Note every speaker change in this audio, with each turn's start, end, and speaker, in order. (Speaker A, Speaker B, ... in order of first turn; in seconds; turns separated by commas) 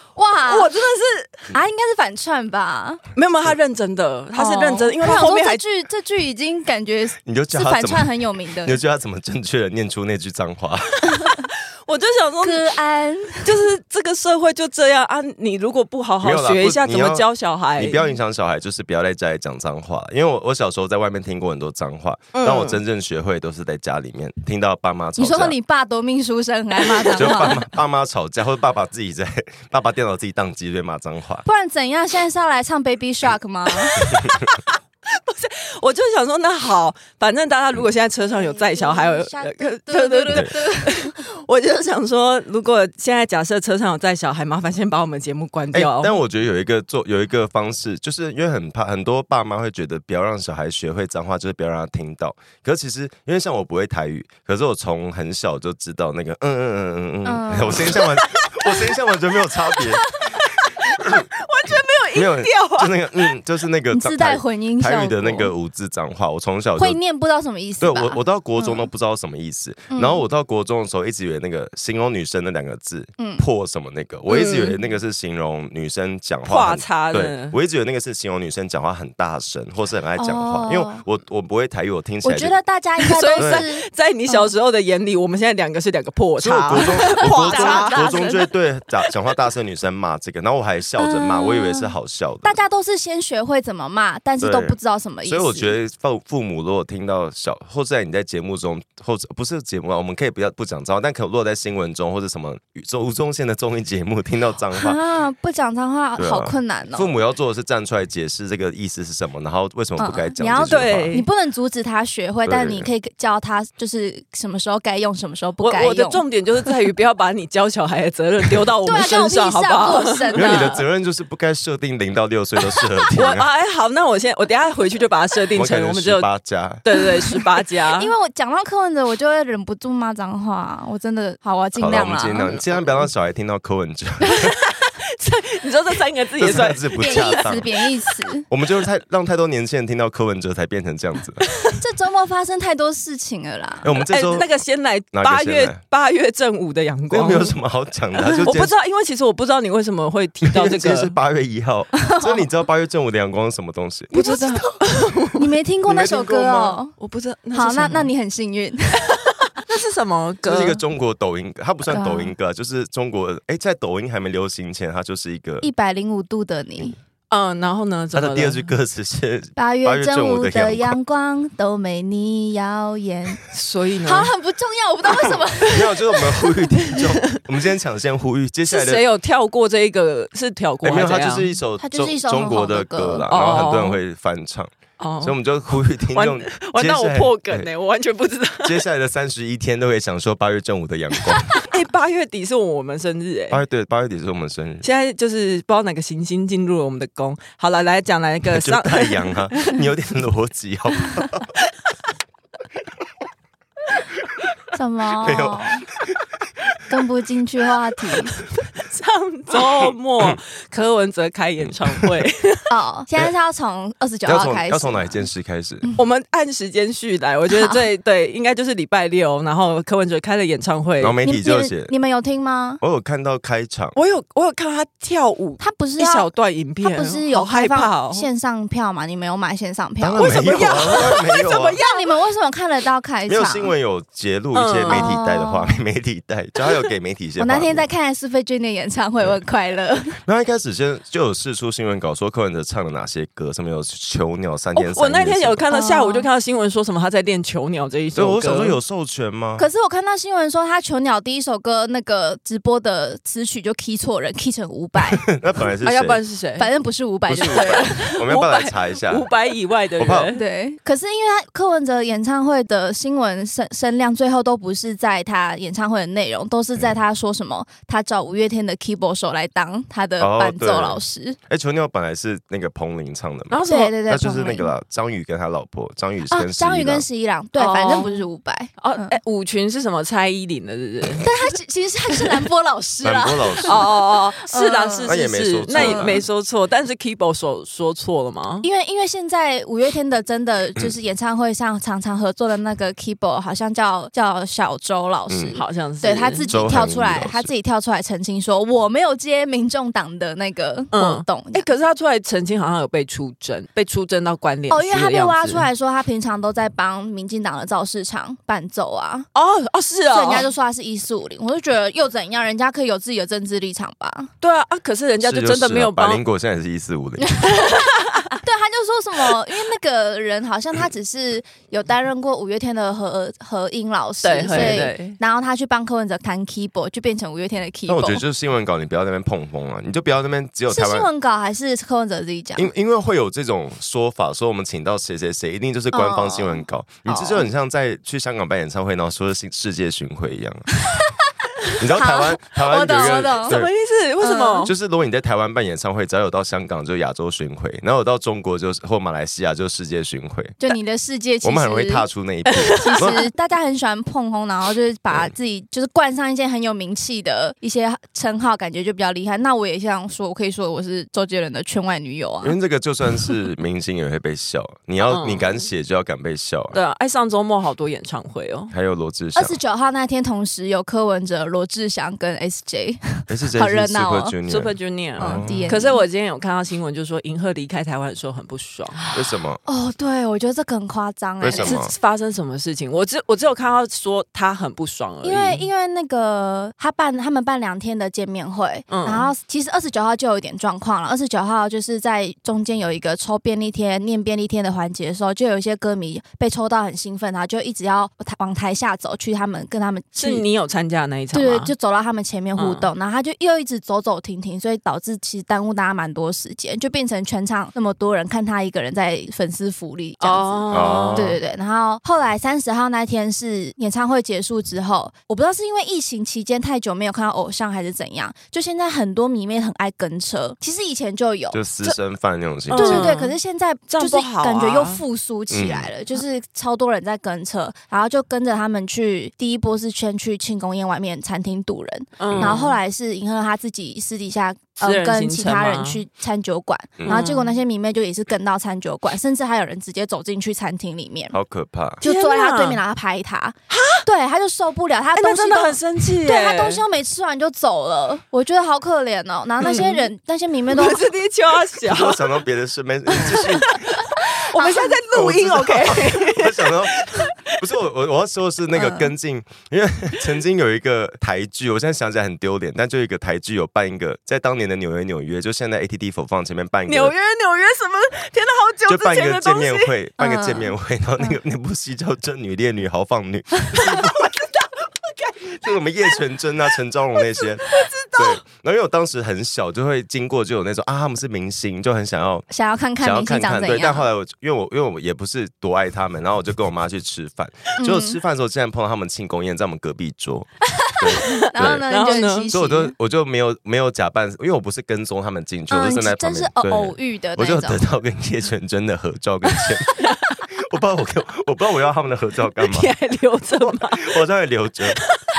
Speaker A: 0.1-0.7, Speaker B: 0.5-1.5, Speaker A: 1.5-3.0, Speaker B: 3.1-5.6, Speaker A: 4.3-8.8, Speaker C: 7.2-8.1, Speaker C: 8.6-11.1, Speaker B: 11.2-12.7, Speaker A: 12.4-13.5, Speaker B: 13.4-18.0, Speaker C: 16.2-25.5, Speaker B: 22.3-22.7, Speaker A: 25.2-27.7, Speaker C: 27.1-31.4, Speaker B: 27.2-27.4, Speaker A: 31.4-34.0, Speaker B: 33.8-46.2, Speaker C: 34.0-34.4, Speaker A: 38.3-41.2, Speaker C: 45.7-60.1, Speaker A: 57.2-58.0, Speaker B: 57.9-58.9, Speaker B: 59.7-63.3, Speaker C: 61.0-61.3, Speaker C: 62.1-67.0, Speaker A: 63.9-65.5, Speaker A: 66.8-68.9, Speaker C: 67.8-82.6, Speaker A: 69.9-70.2, Speaker A: 73.2-73.4, Speaker B: 74.3-74.8, Speaker B: 76.5-77.6, Speaker A: 80.2-81.0, Speaker A: 82.2-84.5, Speaker B: 83.0-88.3, Speaker C: 83.4-83.7, Speaker C: 86.4-92.5, Speaker A: 86.8-88.5, Speaker A: 91.0-95.7, Speaker C: 94.4-105.0, Speaker A: 104.8-107.1, Speaker C: 106.2-111.1, Speaker A: 110.0-116.2, Speaker B: 110.6-111.3, Speaker C: 112.5-112.9, Speaker B: 115.6-120.7, Speaker A: 118.8-120.8, Speaker C: 120.3-123.5, Speaker B: 123.1-126.3, Speaker C: 125.5-126.8, Speaker B: 126.8-128.1, Speaker A: 127.9-132.5, Speaker C: 131.8-134.6, Speaker B: 132.4-132.8, Speaker B: 134.3-138.1, Speaker C: 136.4-137.7, Speaker A: 137.0-138.4, Speaker C: 138.5-141.4, Speaker B: 141.4-141.8, Speaker A: 141.8-143.9, Speaker C: 143.8-144.5, Speaker B: 143.9-147.6, Speaker C: 145.1-145.8, Speaker C: 147.1-148.7, Speaker B: 148.2-151.2, Speaker C: 150.4-155.1, Speaker A: 152.0-152.4, Speaker B: 154.1-155.5, Speaker A: 154.1-154.6, Speaker A: 155.3-156.9, Speaker C: 155.9-156.8, Speaker B: 157.0-158.1, Speaker A: 157.5-159.3, Speaker B: 159.5-160.8, Speaker C: 160.5-165.7, Speaker A: 161.9-162.3, Speaker A: 165.6-167.0, Speaker B: 167.3-168.7, Speaker C: 168.1-170.9, Speaker A: 169.6-173.4, Speaker B: 173.5-174.3, Speaker A: 174.1-176.9, Speaker C: 175.2-179.0, Speaker B: 177.1-177.4, Speaker B: 178.7-181.6, Speaker C: 180.8-187.7, Speaker A: 181.8-183.3, Speaker B: 183.3-184.0, Speaker B: 185.0-188.8, Speaker C: 188.6-191.6, Speaker B: 191.6-193.6, Speaker C: 193.5-194.8, Speaker B: 194.8-199.8, Speaker C: 198.5-201.5, Speaker A: 204.7-205.9, Speaker C: 205.2-206.2, Speaker A: 206.9-208.3, Speaker B: 208.7-212.7, Speaker C: 209.8-210.4, Speaker C: 211.7-212.2, Speaker A: 212.7-215.2, Speaker C: 214.2-215.8, Speaker B: 215.9-221.2, Speaker A: 217.5-217.8, Speaker C: 221.0-221.9, Speaker A: 221.2-222.8, Speaker C: 222.8-223.9, Speaker B: 223.9-228.3, Speaker A: 225.6-226.3, Speaker A: 226.8-233.7, Speaker C: 230.0-231.8, Speaker B: 230.2-232.1, Speaker C: 233.3-237.9, Speaker B: 234.5-235.2, Speaker A: 234.9-235.8, Speaker A: 237.4-240.2, Speaker C: 240.2-245.6, Speaker B: 244.8-248.8, Speaker A: 245.7-246.3, Speaker C: 248.1-249.6, Speaker A: 249.6-255.3, Speaker C: 255.2-256.2, Speaker B: 255.8-256.7, Speaker A: 256.6-258.2, Speaker C: 257.3-259.3, Speaker B: 257.4-260.4, Speaker C: 260.0-260.3, Speaker A: 260.3-271.4, Speaker C: 270.2-277.0, Speaker B: 273.5-273.9, Speaker A: 273.6-274.7, Speaker A: 276.3-279.2, Speaker B: 277.6-278.2, Speaker B: 278.8-281.3, Speaker A: 281.2-285.1, Speaker C: 283.0-283.8, Speaker B: 283.6-288.6, Speaker C: 285.0-286.2, Speaker A: 285.7-286.2, Speaker A: 288.6-301.6, Speaker C: 295.3-295.6, Speaker B: 295.5-296.5, Speaker C: 296.5-297.5, Speaker B: 300.9-305.7, Speaker A: 304.7-309.3, Speaker B: 309.3-310.5, Speaker A: 310.1-314.3, Speaker B: 314.4-316.2, Speaker C: 315.2-317.5, Speaker A: 317.4-317.7, Speaker B: 317.6-318.3, Speaker A: 318.3-328.2, Speaker B: 324.2-325.2, Speaker C: 324.5-324.9, Speaker C: 327.9-331.1, Speaker A: 330.7-332.7, Speaker C: 332.6-340.7, Speaker A: 335.9-337.4, Speaker A: 340.8-343.6, Speaker C: 341.8-343.7, Speaker B: 343.4-344.7, Speaker A: 344.2-344.7, Speaker C: 344.6-350.6, Speaker A: 350.6-352.1, Speaker C: 351.4-353.2, Speaker B: 352.5-353.1, Speaker A: 352.7-362.6, Speaker C: 362.4-366.8, Speaker B: 365.0-365.6, Speaker B: 366.7-368.7, Speaker C: 368.7-369.6, Speaker A: 369.3-374.3, Speaker C: 373.3-375.8, Speaker B: 374.5-379.0, Speaker A: 375.2-376.0, Speaker A: 379.0-381.8, Speaker C: 379.1-379.6, Speaker C: 381.4-381.9, Speaker B: 381.6-385.6, Speaker A: 385.2-400.4, Speaker B: 388.9-389.3, Speaker B: 400.2-401.7, Speaker A: 401.3-421.6, Speaker B: 402.6-402.9, Speaker B: 410.2-411.3, Speaker C: 410.7-411.4, Speaker C: 421.5-423.1, Speaker B: 422.7-423.4, Speaker A: 422.7-441.3, Speaker B: 423.9-425.0, Speaker C: 425.5-425.9, Speaker B: 432.2-432.8, Speaker C: 432.3-432.6, Speaker B: 434.8-436.0, Speaker C: 437.0-437.2, Speaker B: 437.1-437.6, Speaker C: 441.3-442.0, Speaker B: 442.0-442.8, Speaker A: 442.0-451.0, Speaker B: 443.7-444.1, Speaker B: 445.1-446.8, Speaker B: 449.6-450.1, Speaker B: 450.7-452.4, Speaker C: 451.8-453.9, Speaker B: 453.2-457.6, Speaker A: 454.0-455.0, Speaker C: 455.1-467.1, Speaker A: 458.8-459.1, Speaker B: 466.9-469.9, Speaker C: 468.9-474.3, Speaker A: 470.2-471.3, Speaker B: 473.8-475.6, Speaker C: 475.6-482.4, Speaker B: 477.2-478.4, Speaker A: 482.5-484.1, Speaker C: 483.0-491.9, Speaker A: 487.8-488.2, Speaker A: 490.6-492.9, Speaker B: 491.3-492.5, Speaker C: 492.5-499.9, Speaker A: 495.7-497.8, Speaker C: 500.5-502.9, Speaker B: 502.6-504.2, Speaker C: 503.6-505.0, Speaker B: 504.9-505.2